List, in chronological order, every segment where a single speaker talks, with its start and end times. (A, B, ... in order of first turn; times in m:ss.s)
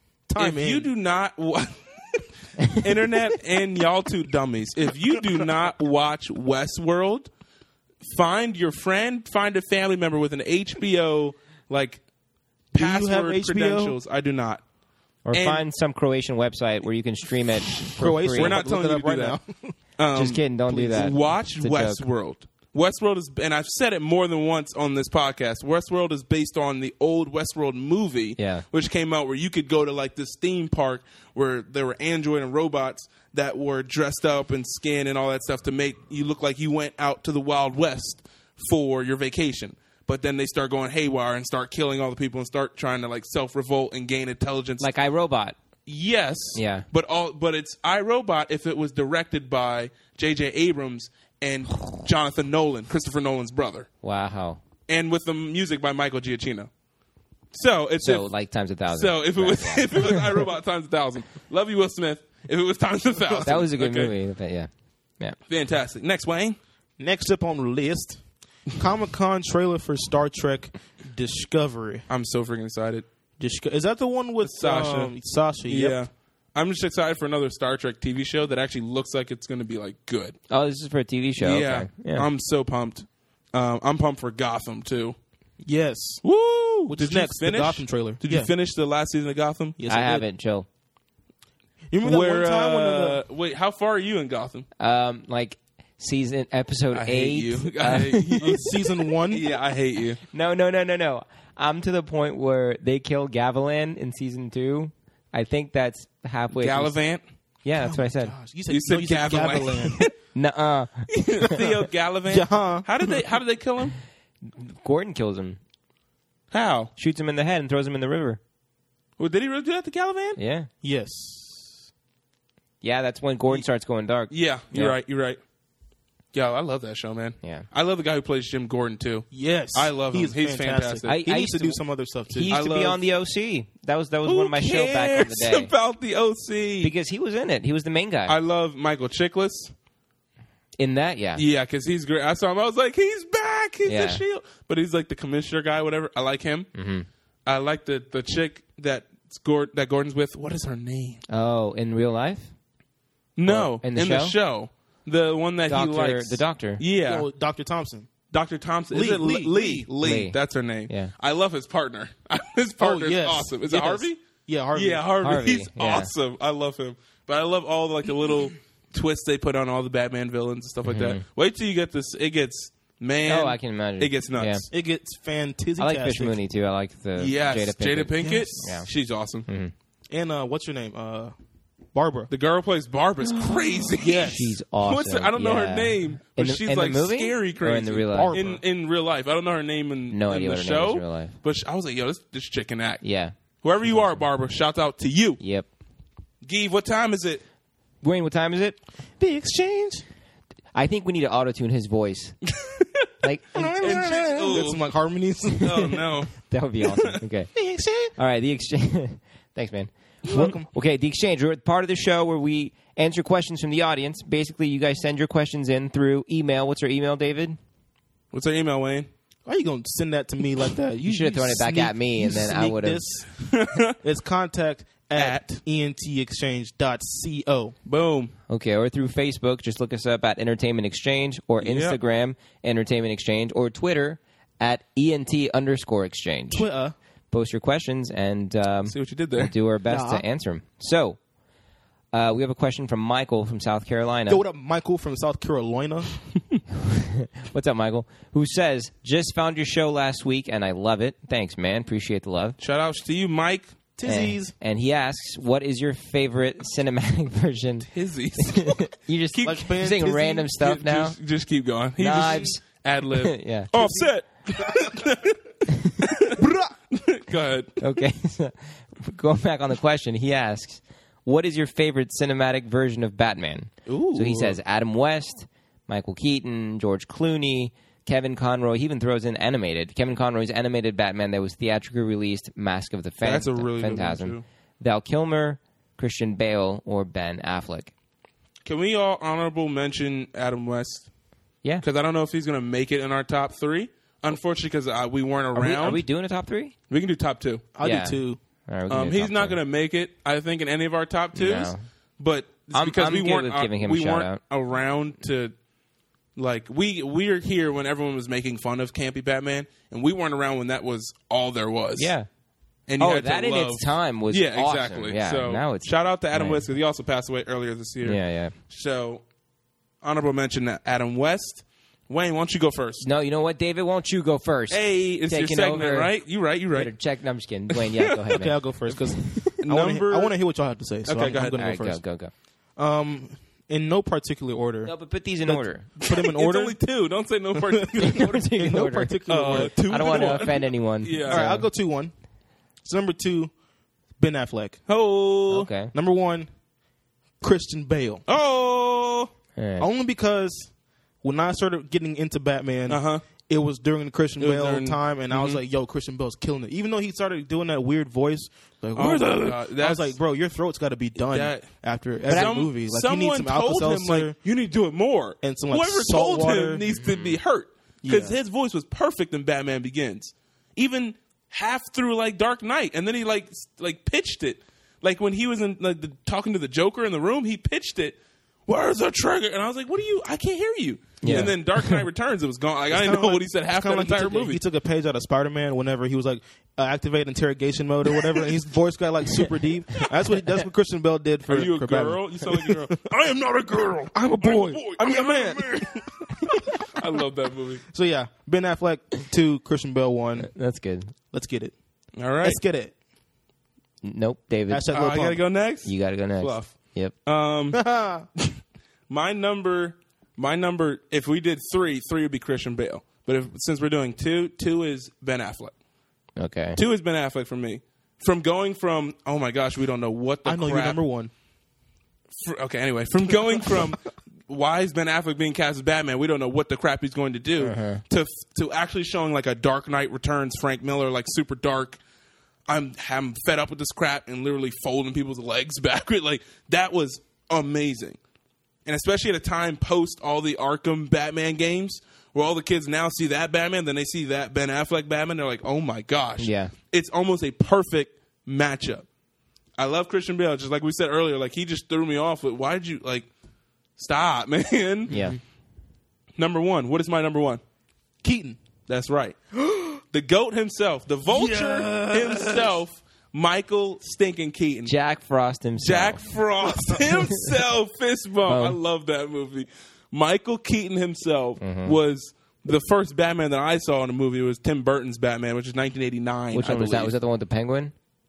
0:00.3-0:00.9 A
0:00.4-0:07.3 B
0:08.0-0:12.0 B
0:12.7-0:14.0 A
0:12.7-0:14.6 B
0:15.2-0:18.6 C
0:15.3-0:15.6 B
0:18.0-0:19.8 A
0:18.4-0:19.4 B
0:20.0-0:44.9 B
0:20.1-0:22.0 C
0:20.7-0:21.1 A
0:28.4-0:28.6 C
0:44.8-0:45.6 C
0:45.9-0:53.9 B
0:46.6-0:46.9 C
0:54.0-0:54.6 C
0:54.9-0:56.7 B
0:57.5-0:58.3 B
0:58.0-1:00.4 C
0:58.9-1:04.1 B
1:03.4-1:05.4 C
1:05.5-1:06.6 B
1:07.0-1:08.2 A
1:08.7-1:12.1 A
1:12.1-1:13.1 B
1:13.4-1:16.0 A
1:14.4-1:15.1 B
1:15.7-1:20.4 B
1:20.5-1:22.3 C
1:21.4-1:25.2 B
1:25.6-1:26.2 A
1:26.2-1:29.8 B
1:26.9-1:28.5 A
1:29.8-1:30.2 A
1:29.9-1:30.7 C
1:31.9-1:33.2 A
1:32.0-1:34.7 B
1:34.8-1:38.5 C
1:36.9-1:40.2 B
1:38.4-1:39.5 A
1:40.3-1:47.0 C
1:46.6-1:47.2 B
1:47.6-1:48.3 C
1:47.8-1:50.0 A
1:48.7-1:50.1 B
1:50.3-1:51.7 C
1:51.1-1:54.0 B
1:52.3-1:52.9 A
1:54.5-1:55.6 C
1:56.5-1:56.9 B
1:57.0-1:58.4 C
1:59.2-2:00.4 B
2:00.4-2:00.7 C
2:00.8-2:01.8 A
2:02.8-2:05.0 C
2:04.3-2:05.4 B
2:06.3-2:11.2 B
2:07.4-2:07.7 C
2:09.3-2:12.6 A
2:11.1-2:11.8 C
2:12.3-2:15.7 C
2:12.5-2:13.0 B
2:14.3-2:16.9 B
2:16.8-2:18.4 C
2:18.3-2:19.7 B
2:20.8-2:21.4 C
2:21.4-2:26.7 B
2:23.9-2:24.2 C
2:26.8-2:27.1 C
2:27.5-2:31.2 B
2:31.3-2:32.5 C
2:33.4-2:37.3 B
2:33.5-2:34.4 C
2:35.7-2:36.8 C
2:37.0-2:38.1 A
2:38.3-2:44.2 B
2:38.9-2:39.9 A
2:40.0-2:40.4 C
2:40.9-2:41.1 C
2:42.8-2:45.1 A
2:44.7-2:54.7 B
2:45.2-2:46.1 C
2:50.8-2:51.2 C
2:53.2-2:54.7 C
2:54.7-2:56.4 A
2:55.8-2:58.9 C
2:57.2-2:59.5 B
2:58.2-2:58.5 A
2:59.5-2:59.7 C
3:00.1-3:01.3 A
3:01.9-3:02.3 A
3:02.3-3:13.0 B
3:04.0-3:04.5 A
3:04.0-3:08.4 C
3:08.1-3:08.6 A
3:10.1-3:11.4 C
3:13.0-3:14.2 C
3:13.6-3:15.4 B
3:15.4-3:15.7 C
3:16.4-3:17.4 B
3:18.0-3:18.8 C
3:19.2-3:20.0 A
3:20.7-3:22.4 C
3:22.6-3:23.1 B
3:23.2-3:24.6 C
3:23.6-3:26.0 A
3:23.8-3:24.9 B
3:25.6-3:27.1 B
3:25.6-3:27.5 C
3:27.5-3:28.1 A
3:28.2-3:37.6 C
3:30.2-3:30.7 A
3:38.3-3:39.1 B
3:39.5-3:43.3 A
3:41.0-3:43.0 C
3:43.4-3:44.0 B
3:44.0-3:47.8 A
3:45.2-3:45.4 B
3:47.8-3:48.3 B
3:48.5-3:56.7 C
3:51.6-3:52.0 B
3:56.5-3:57.0 A
3:57.3-4:01.2 C
3:58.9-3:59.5 B
3:59.9-4:00.2 A
4:02.1-4:04.4 C
4:04.3-4:06.1 A
4:06.7-4:12.6 C
4:12.6-4:13.7 B
4:14.0-4:14.5 A
4:14.0-4:21.2 C
4:17.8-4:19.6 B
4:19.4-4:20.4 A
4:20.1-4:25.4 B
4:22.0-4:22.6 C
4:23.2-4:23.7 C
4:23.8-4:24.1 A
4:25.7-4:25.9 C
4:26.0-4:27.8 B
4:26.4-4:26.8 A
4:27.8-4:47.9 C
4:33.9-4:34.6 B
4:43.2-4:44.4 B
4:48.6-4:51.1 B
4:51.8-4:56.0 B
4:55.6-4:56.7 C
4:56.9-4:57.6 B
4:57.8-4:58.4 A
4:57.8-4:59.6 C
4:58.9-5:05.5 B
5:01.4-5:01.8 C
5:02.7-5:04.4 C
5:06.4-5:12.1 B
5:12.0-5:12.3 C
5:12.9-5:19.2 B
5:13.0-5:16.7 C
5:18.0-5:18.5 C
5:20.0-5:23.1 B
5:23.0-5:26.1 C
5:24.7-5:26.9 B
5:26.7-5:28.6 C
5:27.7-5:28.2 B
5:28.3-5:32.0 A
5:29.6-5:30.3 B
5:31.1-5:31.6 B
5:31.5-5:32.3 C
5:32.8-5:34.9 A
5:34.8-5:35.9 C
5:35.4-5:36.8 A
5:36.0-5:38.3 B
5:37.5-5:40.4 A
5:38.0-5:41.7 C
5:39.3-5:41.4 B
5:41.3-5:42.1 A
5:42.8-5:43.5 A
5:44.2-5:44.8 A
5:44.9-5:45.7 B
5:45.5-5:45.9 C
5:45.9-5:46.5 A
5:47.4-5:48.2 A
5:48.3-5:49.3 B
5:49.6-5:49.9 C
5:49.8-5:50.7 A
5:51.2-6:04.4 A
5:52.9-5:53.2 B
5:54.4-5:55.6 B
5:59.0-6:00.2 B
6:01.3-6:01.7 B
6:02.3-6:24.6 B
6:02.3-6:02.6 C
6:05.4-6:06.8 A
6:07.0-6:07.4 C
6:08.0-6:08.4 A
6:21.2-6:22.0 C
6:22.9-6:33.1 A
6:31.5-6:37.8 B
6:34.1-6:36.8 A
6:37.9-6:40.5 A
6:40.4-6:41.1 C
6:41.3-6:41.8 A
6:42.2-6:42.6 B
6:42.4-6:43.0 A
6:44.0-6:44.9 C
6:44.7-6:45.4 A
6:44.9-6:46.7 B
6:45.8-6:47.1 C
6:47.3-6:47.8 B
6:47.7-6:48.3 A
6:49.1-6:55.7 B
6:56.4-6:56.8 C
6:56.8-7:01.0 B
7:00.4-7:01.3 A
7:02.4-7:12.0 B
7:07.6-7:08.0 C
7:12.7-7:18.2 B
7:18.8-7:29.1 B
7:26.4-7:26.7 C
7:29.8-7:33.3 B
7:34.0-7:35.2 B
7:35.1-7:35.4 C
7:36.4-7:37.6 B
7:38.2-7:38.6 A
7:38.9-7:39.4 B
7:39.6-7:40.0 A
7:40.0-7:44.9 B
7:41.3-7:42.8 A
7:44.9-7:46.2 C
7:45.8-7:57.1 B
7:48.5-7:48.8 C
7:51.6-7:52.0 C
7:56.5-7:57.9 C